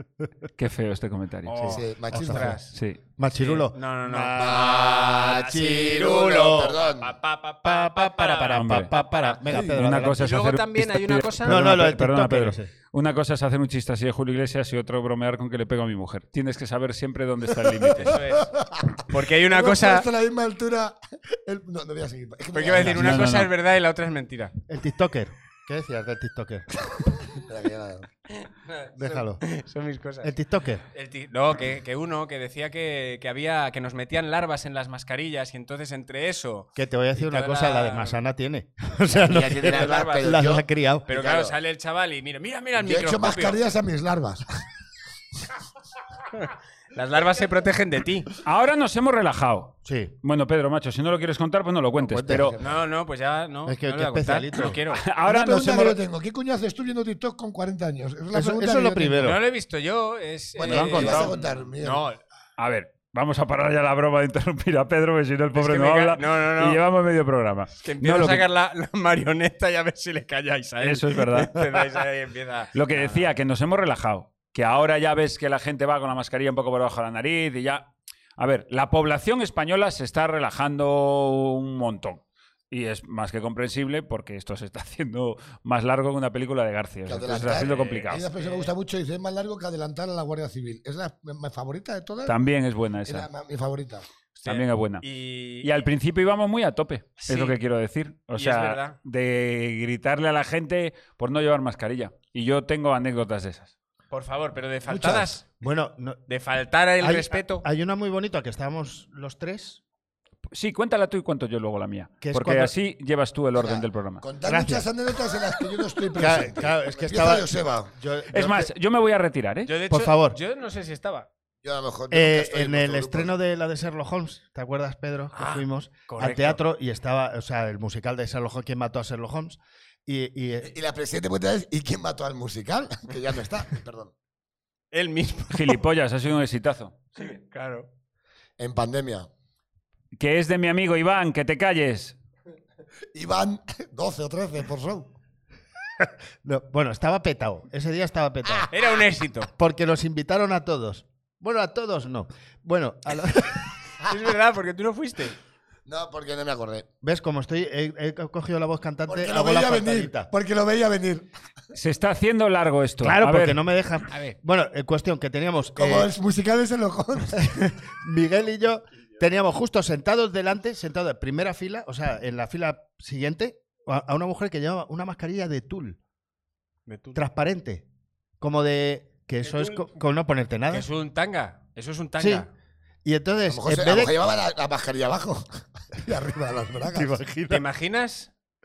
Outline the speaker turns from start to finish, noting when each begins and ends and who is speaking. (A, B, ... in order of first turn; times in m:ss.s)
0:00.6-0:01.6 A
0:01.4-0:02.7 B
0:01.6-0:02.6 C
0:01.7-0:02.6 D
0:02.7-0:03.0 A
0:03.2-0:06.7 C
0:03.4-0:09.4 B
0:04.4-0:07.1 D
0:07.6-0:10.3 C
0:08.5-0:08.9 A
0:09.6-0:18.2 A
0:10.2-0:11.6 B
0:11.4-0:12.7 C
0:17.9-0:18.5 B
0:18.1-0:23.2 D
0:19.1-0:20.1 B
0:22.5-0:24.5 B
0:22.8-0:23.5 A
0:24.7-0:26.7 C
0:27.3-0:28.1 D
0:28.4-0:30.3 B
0:29.0-0:29.4 C
0:30.2-0:30.8 C
0:30.9-0:38.2 B
0:36.7-0:41.0 C
0:39.1-0:41.5 D
0:39.6-0:40.4 B
0:41.1-0:43.6 B
0:42.8-0:44.4 D
0:46.4-0:48.3 B
0:48.4-0:52.6 A
0:49.8-0:50.1 C
0:52.0-0:52.6 C
0:52.3-0:52.7 D
0:52.6-0:55.0 B
0:53.6-0:54.8 C
0:54.9-0:56.0 A
0:55.2-0:59.3 D
0:58.3-0:59.4 C
0:59.2-1:02.2 B
1:00.6-1:02.0 D
1:00.6-1:01.3 A
1:02.6-1:08.5 A
1:05.5-1:06.8 B
1:07.8-1:13.3 B
1:10.8-1:11.6 A
1:12.7-1:17.8 A
1:18.4-1:28.3 A
1:27.0-1:32.4 D
1:27.6-1:28.7 B
1:32.2-1:33.3 A
1:33.0-1:34.0 D
1:34.4-1:35.7 B
1:34.4-1:35.0 A
1:35.6-1:43.7 A
1:37.2-1:37.6 B
1:38.4-1:39.0 B
1:44.1-1:45.4 B
1:44.9-1:45.2 D
1:45.6-1:46.2 C
1:46.3-1:47.6 B
1:47.0-1:49.8 C
1:50.5-1:54.2 A
1:52.2-1:52.7 C
1:53.6-1:57.9 D
1:54.4-1:54.9 C
1:56.1-1:58.7 C
1:58.3-1:59.7 A
1:59.6-2:01.3 B
1:59.9-2:00.4 C
2:01.6-2:03.3 D
2:02.1-2:10.7 C
2:05.3-2:06.6 B
2:10.6-2:14.1 D
2:14.9-2:15.8 B
2:15.5-2:17.1 A
2:17.2-2:17.9 B
2:18.6-2:19.3 D
2:20.2-2:22.1 A
2:23.1-2:25.1 D
2:26.0-2:28.7 C
2:28.7-2:29.5 B
2:29.5-2:33.7 C
2:34.0-2:35.4 B
2:35.8-2:36.9 D
2:37.0-2:40.3 C
2:39.1-2:41.3 D
2:41.7-2:43.6 A
2:43.0-2:46.1 C
2:45.8-2:47.5 D
2:47.4-2:56.0 C
2:56.9-2:57.2 B
2:57.1-2:57.8 C
2:58.4-3:00.9 C
2:59.4-2:59.9 B
3:00.7-3:02.5 B
3:02.2-3:02.5 C
3:03.0-3:04.1 C
3:03.5-3:07.1 D
3:06.9-3:07.6 C
3:07.5-3:08.3 B